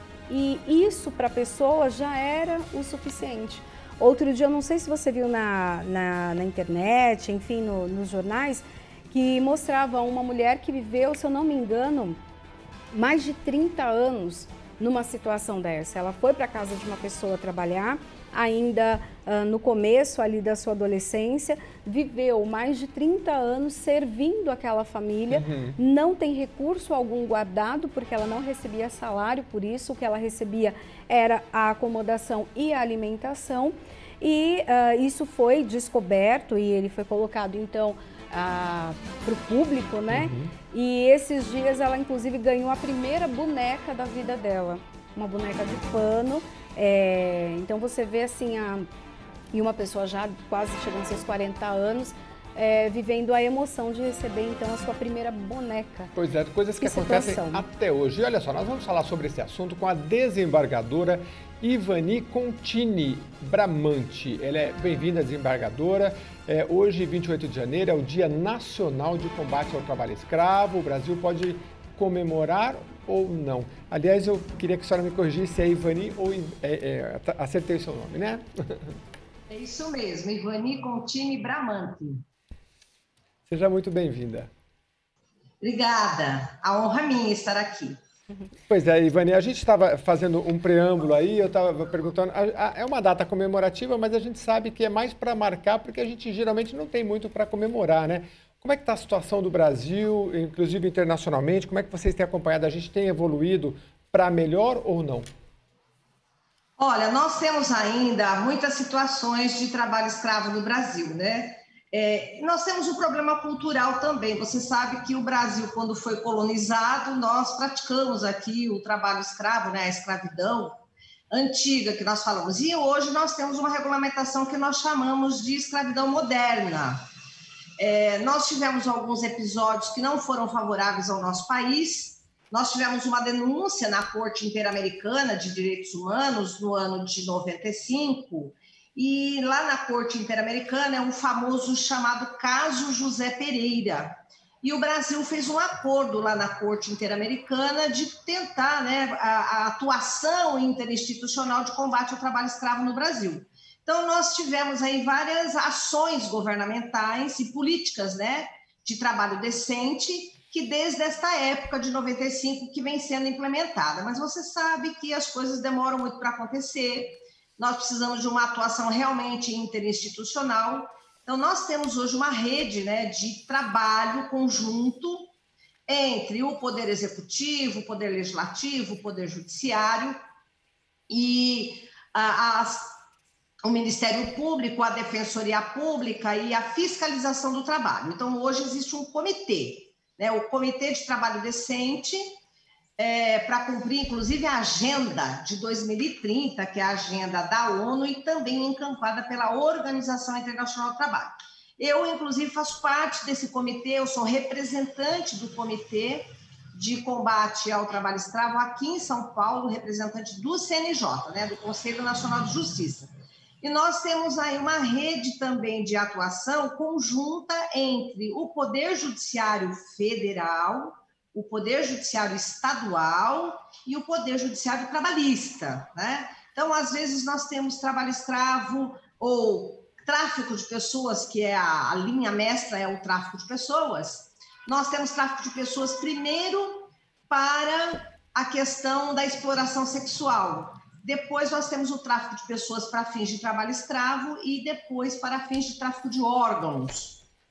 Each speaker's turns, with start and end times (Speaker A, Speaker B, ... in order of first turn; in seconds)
Speaker A: 0.3-12.2, 12.9-48.9, 49.5-56.1, 56.8-57.6
Speaker B: 25.3-25.8, 40.1-40.5, 56.1-79.0, 83.5-84.5, 88.7-105.3
Speaker C: 79.5-82.2, 85.6-88.0, 106.8-120.8, 121.3-127.0, 127.8-175.3, 175.9-180.2, 181.1-182.9, 183.6-192.3, 193.0-213.1, 213.6-247.2